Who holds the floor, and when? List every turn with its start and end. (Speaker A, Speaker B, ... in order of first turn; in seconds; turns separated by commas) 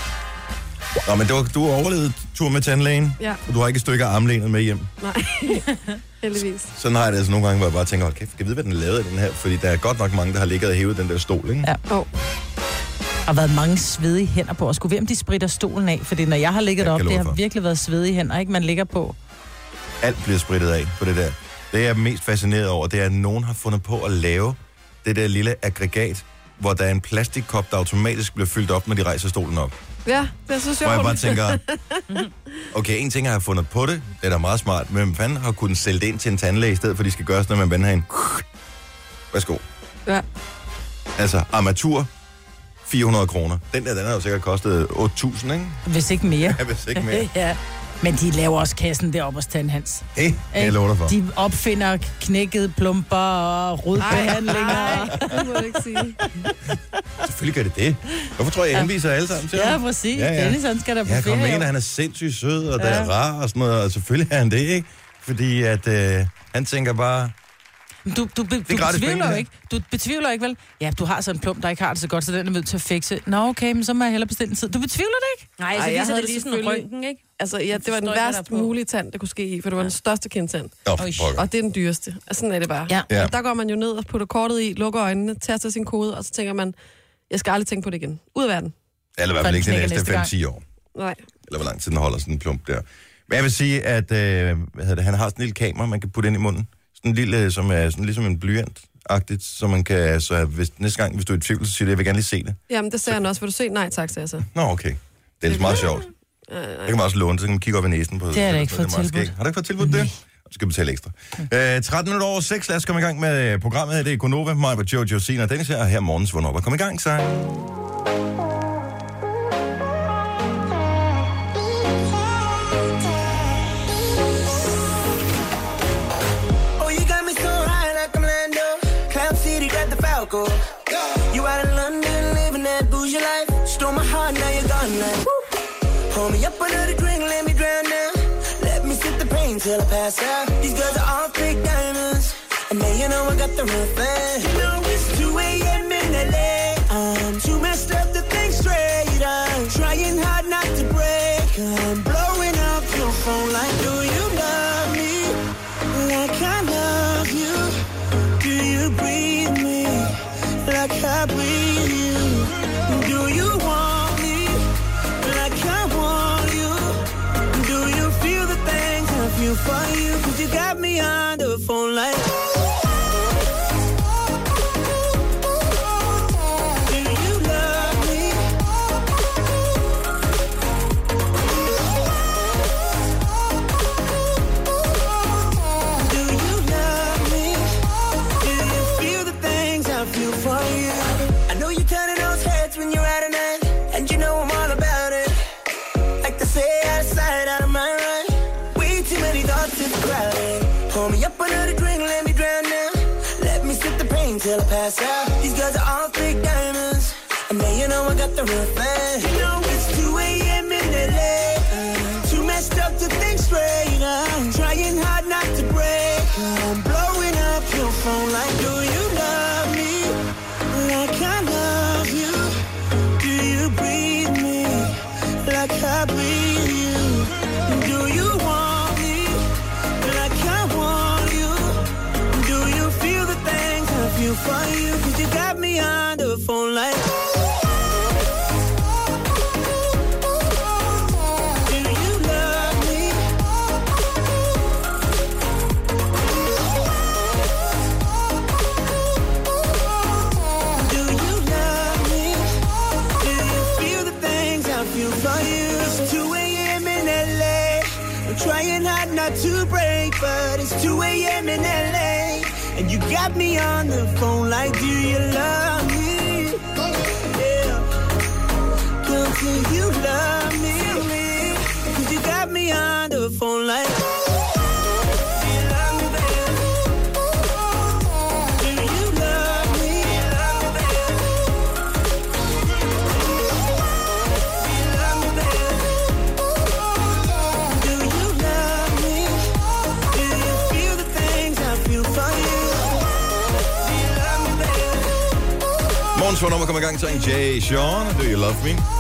Speaker A: 1.0-4.9, Speaker B: 5.0-6.7, Speaker A: 6.8-11.7, Speaker C: 13.3-19.2, Speaker A: 16.8-17.4, Speaker A: 20.0-29.7, Speaker B: 30.1-32.2, Speaker A: 30.8-31.6, Speaker A: 32.7-38.4, Speaker A: 39.3-39.6, Speaker A: 41.2-42.1, Speaker A: 42.9-45.8, Speaker C: 45.9-55.4, Speaker A: 46.4-47.3, Speaker A: 50.2-51.2, Speaker B: 54.0-56.2, Speaker A: 57.2-67.3, Speaker C: 59.5-61.7, Speaker C: 62.8-63.1, Speaker C: 68.1-75.5, Speaker A: 68.7-69.5, Speaker D: 75.6-77.2, Speaker B: 75.7-76.9, Speaker B: 77.4-80.8, Speaker D: 77.8-78.7, Speaker A: 80.8-81.4, Speaker D: 81.0-81.3, Speaker B: 81.3-86.7, Speaker B: 87.3-88.7, Speaker A: 89.2-90.6, Speaker C: 89.4-90.3, Speaker B: 91.0-91.2, Speaker A: 91.5-103.2, Speaker B: 102.7-104.5, Speaker A: 104.5-106.1, Speaker B: 105.5-107.0, Speaker A: 106.8-117.5, Speaker C: 108.3-110.1, Speaker E: 126.8-135.4, Speaker E: 136.1-157.8, Speaker E: 158.4-172.4, Speaker E: 176.8-178.6, Speaker E: 186.0-195.4, Speaker E: 196.2-220.2, Speaker E: 220.7-222.6, Speaker E: 223.2-237.1, Speaker E: 241.7-243.4, Speaker E: 250.7-266.7, Speaker E: 267.3-267.9, Speaker E: 269.0-274.1, Speaker E: 275.3-276.7, Speaker E: 278.6-281.3, Speaker E: 284.6-286.0, Speaker E: 287.6-293.1, Speaker E: 293.8-295.2, Speaker A: 296.1-298.9